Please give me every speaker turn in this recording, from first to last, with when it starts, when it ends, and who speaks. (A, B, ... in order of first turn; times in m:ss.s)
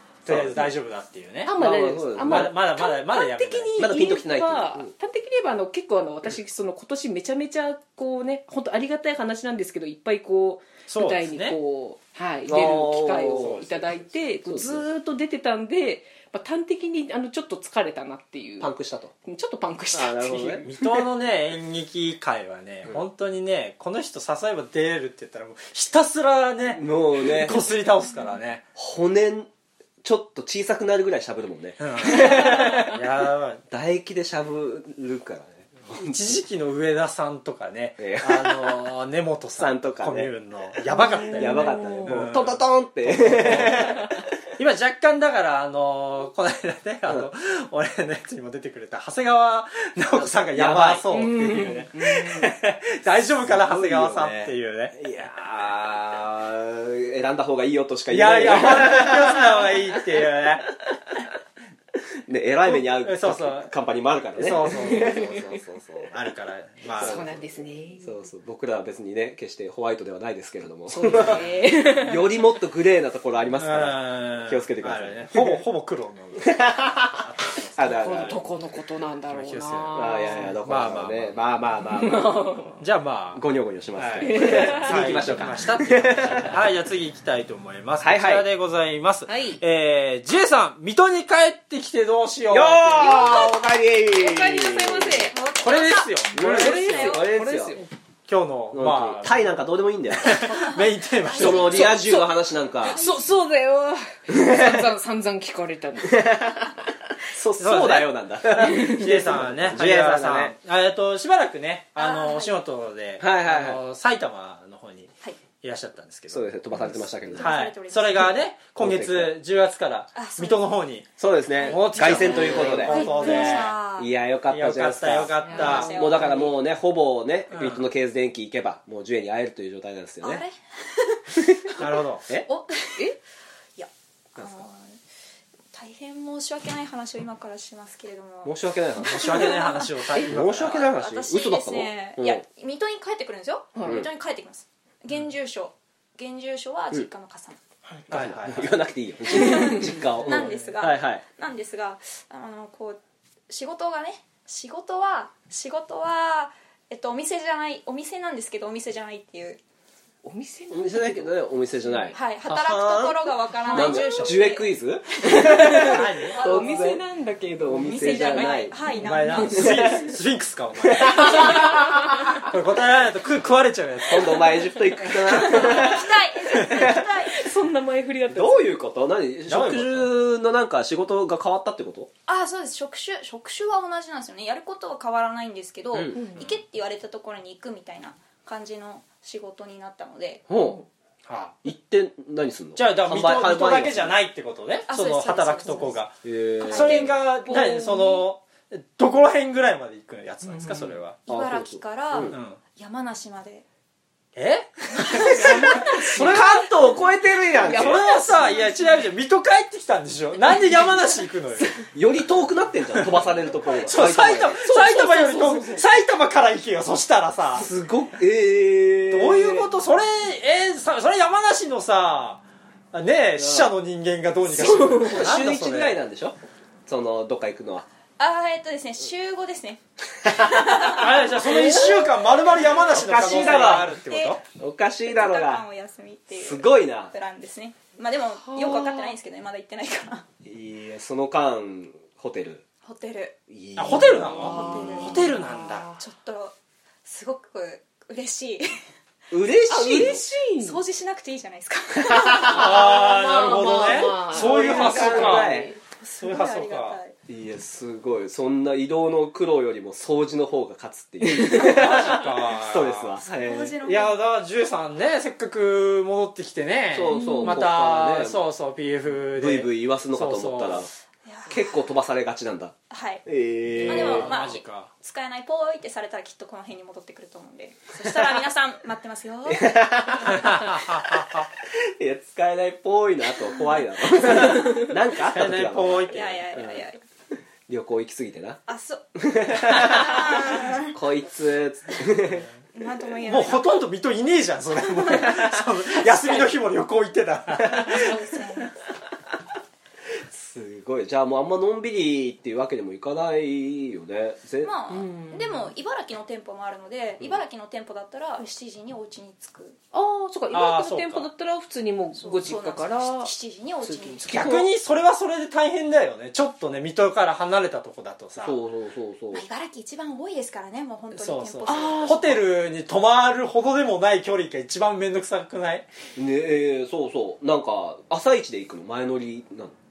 0:00.2-0:01.6 A
0:00.3-0:00.7 B
0:01.4-0:18.7 C
0:01.6-0:02.5 B
0:02.2-0:03.9 A
0:03.8-0:04.9 B
0:10.9-0:11.6 A
0:12.5-0:13.7 B
0:13.1-0:14.0 A
0:14.4-0:14.9 B
0:18.6-0:19.1 B
0:19.2-0:20.6 C
0:19.9-0:21.0 B
0:20.4-0:28.6 A
0:26.7-0:27.6 B
0:28.8-0:29.5 B
0:30.0-0:33.0 B
0:31.8-0:33.6 A
0:33.7-0:36.4 B
0:35.9-0:55.0 A
0:38.0-0:38.9 B
0:39.6-0:40.3 B
0:40.9-0:42.2 C
0:41.3-0:44.2 B
0:50.2-0:51.8 B
0:51.1-0:52.5 C
0:53.4-0:59.8 B
0:58.1-1:00.7 A
1:02.3-1:06.1 B
1:02.7-1:03.7 A
1:04.4-1:07.2 A
1:04.8-1:05.4 C
1:07.0-1:08.2 C
1:07.0-1:15.6 B
1:10.9-1:12.2 C
1:13.6-1:18.4 A
1:16.4-1:18.4 B
1:17.9-1:20.6 C
1:19.3-1:21.5 A
1:19.9-1:22.3 B
1:22.0-1:22.8 C
1:22.8-1:33.4 A
1:23.4-1:26.7 B
1:24.2-1:25.4 C
1:28.0-1:28.5 B
1:29.3-1:29.6 C
1:32.5-1:35.3 B
1:33.0-1:35.4 C
1:35.3-1:37.2 D
1:35.6-1:37.2 A
1:36.3-1:37.8 B
1:36.4-1:37.9 C
1:38.3-1:39.5 A
1:38.7-1:40.5 B
1:40.2-1:42.0 A
1:40.5-1:41.8 D
1:41.3-1:43.0 B
1:41.4-1:46.7 C
1:42.9-1:43.2 D
1:44.3-1:44.9 B
1:46.0-1:46.7 B
1:47.3-1:50.6 B
1:47.6-1:56.5 A
1:48.6-1:49.0 C
1:52.0-1:52.6 D
1:53.2-1:53.8 B
1:56.3-1:57.6 B
1:57.3-1:58.4 D
1:57.4-2:01.1 A
1:58.8-1:59.3 B
2:00.2-2:00.6 D
2:01.2-2:10.4 B
2:01.6-2:04.1 D
2:01.6-2:03.8 A
2:02.2-2:03.4 C
2:04.5-2:06.0 A
2:05.4-2:06.5 C
2:05.5-2:06.6 D
2:07.5-2:07.8 A
2:10.2-2:11.9 D
2:11.4-2:11.7 B
2:11.8-2:12.3 A
2:12.5-2:13.1 D
2:13.8-2:15.0 D
2:15.7-2:27.6 D
2:18.4-2:19.7 B
2:19.0-2:20.9 A
2:20.2-2:22.4 B
2:23.8-2:24.1 C
2:28.1-2:31.2 B
2:28.1-2:28.8 A
2:29.3-2:39.6 D
2:30.3-2:30.6 A
2:40.2-2:42.2 C
2:40.7-2:48.8 B
2:42.1-2:44.7 D
2:43.7-2:44.2 C
2:45.2-2:50.1 C
2:45.3-2:46.9 D
2:45.8-2:46.4 A
2:47.7-2:50.0 D
2:49.0-2:54.7 A
2:49.4-2:50.1 B
2:50.8-2:51.7 B
2:51.2-2:51.6 C
2:54.1-2:57.1 B
2:55.4-2:57.4 D
2:55.5-2:55.8 C
2:57.3-2:58.8 C
2:58.3-3:02.1 B
2:59.5-3:00.1 A
3:02.3-3:10.4 D
3:05.9-3:06.4 B
3:06.1-3:06.4 C
3:10.5-3:10.8 B
3:11.3-3:11.6 A
3:11.6-3:14.2 B
3:12.8-3:21.2 A
3:14.9-3:16.0 D
3:16.2-3:17.2 B
3:16.6-3:17.1 D
3:17.4-3:18.2 C
3:20.5-3:21.0 C
3:21.3-3:22.4 B
3:21.3-3:23.7 D
3:22.3-3:22.6 A
3:24.4-3:26.7 A
3:25.0-3:26.2 D
3:25.3-3:28.1 B
3:25.5-3:26.5 C
3:27.6-3:31.8 A
3:27.6-3:28.9 C
3:31.9-3:34.6 B
3:33.7-3:37.7 A
3:34.1-3:35.9 C
3:37.5-3:39.7 B
3:39.1-3:42.4 A
3:42.9-3:46.0 A
3:43.4-3:43.7 B
3:44.5-3:45.3 C
3:44.6-3:47.9 B
3:48.2-3:52.0 D
3:50.2-3:50.9 B
3:50.8-3:54.4 A
3:51.5-3:51.9 B
3:52.9-3:54.0 B
3:53.2-3:54.4 D
3:54.6-3:55.7 B
3:55.0-4:00.3 D
3:56.4-3:57.1 B
3:58.4-3:59.2 C
4:00.4-4:02.6 B
4:02.8-4:03.4 D
4:03.5-4:04.7 B
4:03.8-4:05.9 A
4:04.1-4:06.0 C
4:04.4-4:05.3 D
4:06.0-4:08.7 D
4:09.3-4:10.2 B
4:09.7-4:10.8 C
4:10.6-4:13.3 D
4:12.0-4:12.9 B
4:12.4-4:15.7 A
4:12.6-4:15.8 C
4:13.4-4:15.7 B
4:14.6-4:15.4 D
4:15.9-4:17.2 D
4:16.2-4:17.0 A
4:17.3-4:23.8 B
4:21.4-4:23.2 A
4:23.2-4:24.2 D
4:23.8-4:30.9 A
4:26.9-4:28.4 B
4:27.1-4:27.6 C
4:29.4-4:30.9 B
4:31.3-4:31.8 D
4:31.5-4:32.8 B
4:32.9-4:33.2 D
4:33.3-4:34.3 B
4:33.8-4:34.0 C
4:33.9-4:34.9 A
4:33.9-4:39.8 D
4:39.5-4:46.8 B
4:40.3-4:41.4 A
4:45.2-4:46.4 A
4:46.1-4:47.0 D
4:47.7-4:48.6 B
4:48.7-4:51.0 D
4:49.2-4:52.5 B
4:52.7-4:53.7 D
4:53.2-4:58.2 A
4:55.0-4:55.4 D
4:57.6-4:58.7 D
5:00.3-5:04.7 B
5:04.6-5:09.8 D
5:04.9-5:05.7 C
5:09.9-5:13.3 C
5:10.5-5:11.3 A
5:12.2-5:14.6 D
5:13.8-5:14.6 C
5:14.3-5:14.7 B
5:14.3-5:18.6 A
5:18.4-5:19.4 B
5:19.3-5:22.4 D
5:21.1-5:25.9 A
5:21.7-5:22.3 C
5:26.2-5:29.8 B